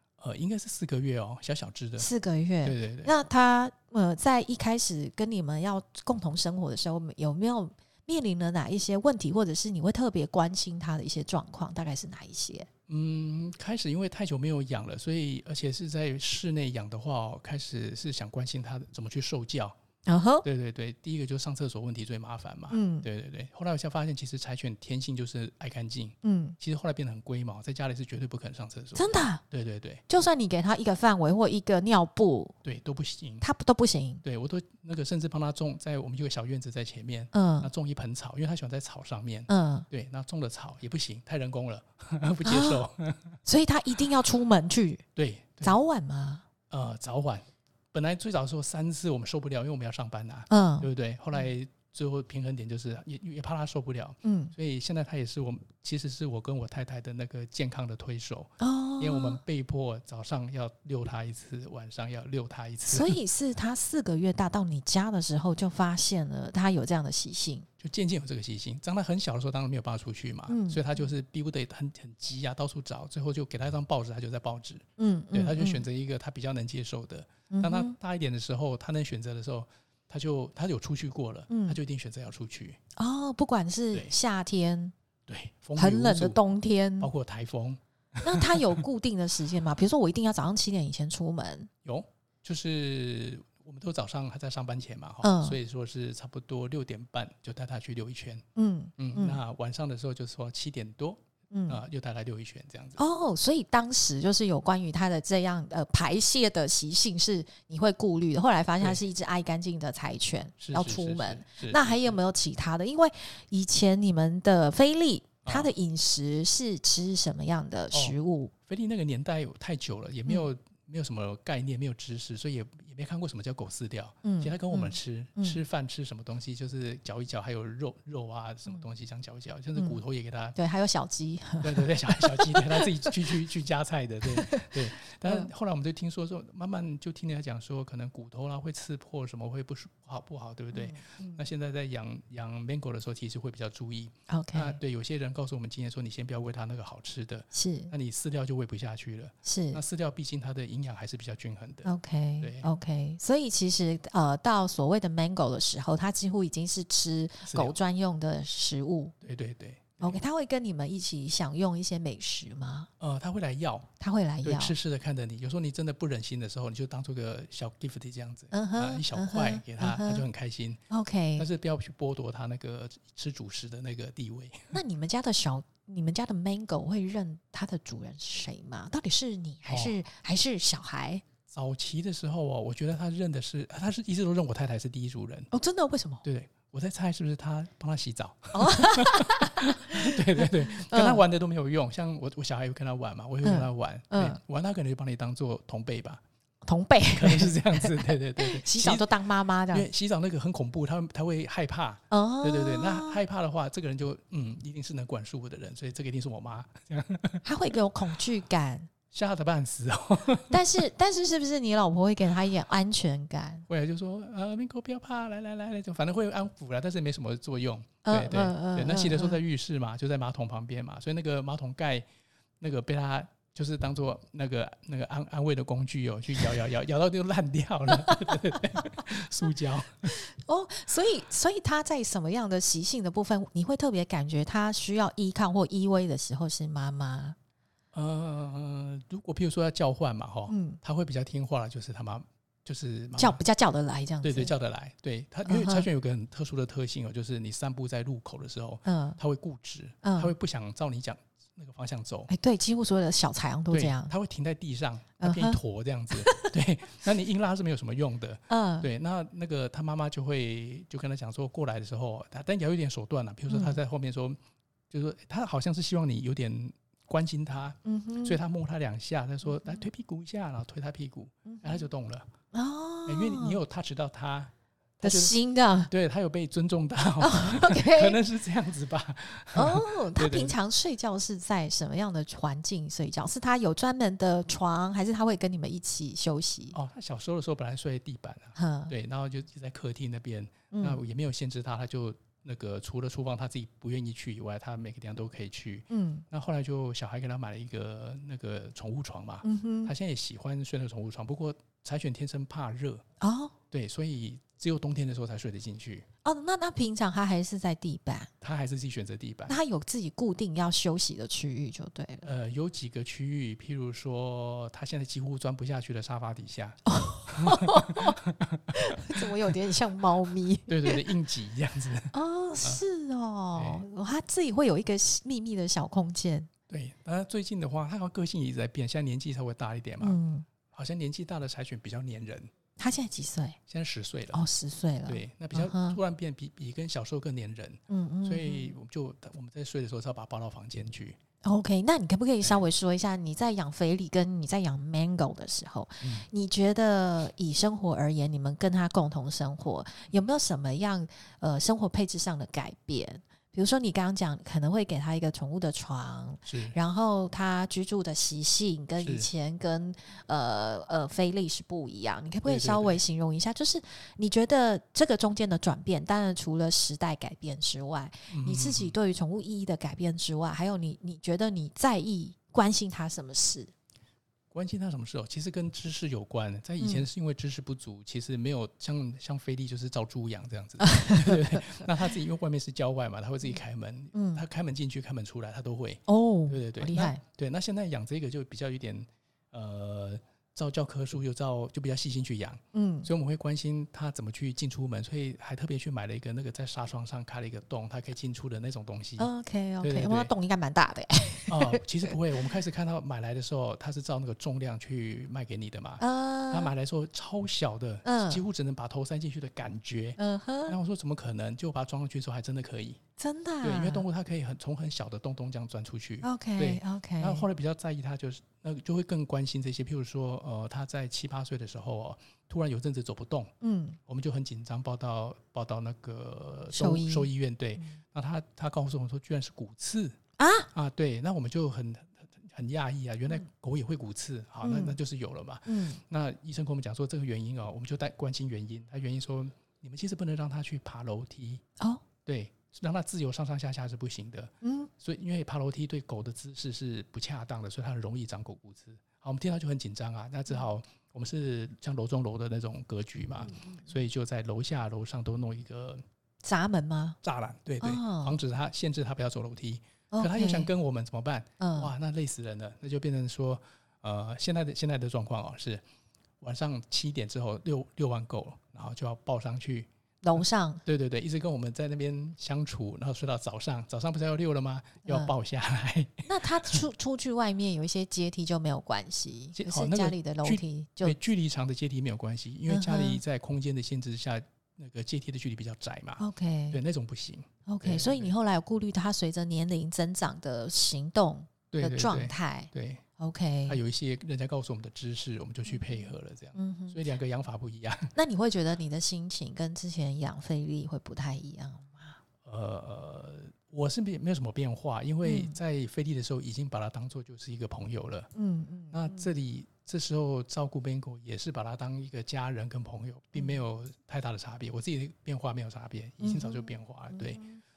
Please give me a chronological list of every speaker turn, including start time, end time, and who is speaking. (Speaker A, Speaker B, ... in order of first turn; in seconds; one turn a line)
Speaker A: 0.2-2.1
Speaker B: 2.0-12.7
Speaker A: 2.6-3.1
Speaker A: 12.9-19.7
Speaker B: 20.1-20.4
Speaker A: 20.4-30.0
Speaker B: 22.7-23.1
Speaker B: 26.2-26.6
Speaker B: 28.9-29.4
Speaker B: 30.1-32.5
Speaker A: 32.6-33.4
Speaker B: 33.4-34.2
Speaker A: 34.2-43.4
Speaker B: 37.3-37.7
Speaker B: 39.5-39.9
Speaker B: 42.4-42.9
Speaker B: 43.4-45.0
Speaker A: 45.1-45.8
Speaker B: 45.6-46.4
Speaker A: 46.7-63.2
Speaker B: 50.5-50.9
Speaker B: 54.2-54.5
Speaker B: 58.6-59.4
Speaker B: 62.9-67.7
Speaker A: 67.8-82.8
Speaker B: 70.5-70.8
Speaker B: 75.0-75.8
Speaker B: 77.5-78.0
Speaker B: 81.5-81.8
Speaker B: 83.0-84.9
Speaker A: 85.3-86.4
Speaker B: 85.8-87.1
Speaker A: 87.0-88.7
Speaker B: 88.2-91.7
Speaker A: 91.8-98.4
Speaker B: 95.2-95.6
Speaker B: 98.5-99.4
Speaker A: 99.0-103.0
Speaker B: 101.5-101.8
Speaker B: 103.0-118.5
Speaker A: 110.6-112.2
Speaker A: 115.4-115.7
Speaker A: 117.9-118.2
Speaker A: 118.7-130.6
Speaker B: 124.2-125.6
Speaker B: 129.7-130.0
Speaker B: 130.6-133.1
Speaker A: 131.6-151.9
Speaker B: 134.3-135.5
Speaker B: 140.7-141.4
Speaker B: 144.3-144.8
Speaker B: 147.5-147.9
Speaker B: 149.4-149.8
Speaker B: 151.8-159.1
Speaker A: 152.4-152.7
Speaker A: 157.5-157.8
Speaker A: 159.2-160.2
Speaker B: 160.0-162.9
Speaker A: 163.0-163.9
Speaker B: 164.0-164.7
Speaker A: 164.4-170.8
Speaker B: 168.5-170.2
Speaker B: 170.9-171.5
Speaker A: 171.4-174.8
Speaker B: 174.7-181.2
Speaker A: 179.7-179.9
Speaker A: 181.5-185.5
Speaker B: 185.5-186.2
Speaker A: 186.2-196.2
Speaker B: 188.5-191.2
Speaker B: 193.4-194.4
Speaker B: 196.6-199.9
Speaker A: 197.1-199.1
Speaker A: 199.7-207.4
Speaker B: 202.1-203.2
Speaker B: 207.4-208.9
Speaker A: 209.1-210.7
Speaker B: 210.5-213.7
Speaker A: 213.7-222.0
Speaker B: 218.0-219.4
Speaker A: 222.6-230.1
Speaker B: 227.9-228.3
Speaker B: 230.1-237.3
Speaker A: 237.9-243.4
Speaker B: 240.5-240.8
Speaker B: 243.2-244.5
Speaker A: 244.2-252.3
Speaker B: 245.4-245.9
Speaker B: 248.8-249.2
Speaker B: 250.0-250.3
Speaker B: 252.3-254.1
Speaker A: 253.7-264.4
Speaker B: 255.2-255.6
Speaker B: 256.1-256.5
Speaker B: 258.5-258.9
Speaker B: 263.5-263.8
Speaker A: 264.9-272.3
Speaker B: 267.8-268.4
Speaker B: 269.5-269.8
Speaker B: 271.4-271.9
Speaker B: 272.5-273.6
Speaker A: 273.1-274.5
Speaker B: 275.0-275.9
Speaker A: 275.0-275.3
Speaker A: 275.9-280.5
Speaker B: 277.2-278.2
Speaker B: 279.5-286.8
Speaker A: 286.7-303.0
Speaker B: 288.6-288.9
Speaker B: 290.7-291.0
Speaker B: 295.9-296.2
Speaker B: 299.4-299.9
Speaker B: 303.2-303.5
Speaker A: 303.7-306.0
Speaker B: 306.2-308.3
Speaker A: 308.4-309.6
Speaker B: 309.5-312.3
Speaker A: 312.2-316.8
Speaker B: 316.9-318.2
Speaker A: 317.5-319.3
Speaker B: 318.7-321.0
Speaker A: 320.7-322.8
Speaker B: 322.1-326.5
Speaker A: 323.5-323.9
Speaker A: 326.7-330.2
Speaker B: 330.0-330.5
Speaker A: 330.7-332.5
Speaker B: 332.8-333.6
Speaker A: 333.7-334.4
Speaker B: 334.3-336.0
Speaker A: 335.1-341.2
Speaker B: 337.9-338.7
Speaker B: 341.4-373.7
Speaker A: 346.0-346.3
Speaker A: 356.4-356.8
Speaker A: 359.0-359.3
Speaker A: 362.4-363.0
Speaker A: 368.3-368.9
Speaker A: 374.5-399.3
Speaker B: 376.8-377.0
Speaker B: 380.8-381.9
Speaker B: 384.1-384.4
Speaker B: 386.1-387.2
Speaker B: 392.7-393.1
Speaker B: 399.2-402.1
Speaker A: 399.8-400.3
Speaker A: 401.5-413.0
Speaker B: 406.0-406.7
Speaker B: 408.0-408.4
Speaker B: 410.2-410.8
Speaker B: 413.2-414.1
Speaker A: 413.6-423.5
Speaker B: 416.2-417.4
Speaker B: 423.6-424.0
Speaker A: 424.1-430.2
Speaker B: 426.7-428.0
Speaker B: 430.4-430.7
Speaker A: 430.7-441.6
Speaker B: 434.6-434.9
Speaker B: 435.7-436.0
Speaker A: 442.2-456.0
Speaker B: 444.6-444.9
Speaker B: 453.5-453.9
Speaker B: 456.4-457.2
Speaker A: 457.2-465.8
Speaker B: 457.8-458.4
Speaker B: 460.1-460.7
Speaker B: 461.6-461.9
Speaker A: 466.4-469.9
Speaker B: 470.2-470.8
Speaker A: 470.4-476.8
Speaker B: 475.0-475.3
Speaker B: 476.3-481.2
Speaker A: 479.5-488.3
Speaker B: 482.7-483.2
Speaker B: 486.2-486.8
Speaker B: 487.7-493.8
Speaker A: 491.7-493.0
Speaker A: 493.7-498.1
Speaker B: 495.6-497.0
Speaker B: 498.1-502.2
Speaker A: 502.4-508.3
Speaker B: 505.2-505.5
Speaker B: 508.3-509.3
Speaker A: 508.9-517.4
Speaker B: 513.4-513.6
Speaker B: 516.2-517.6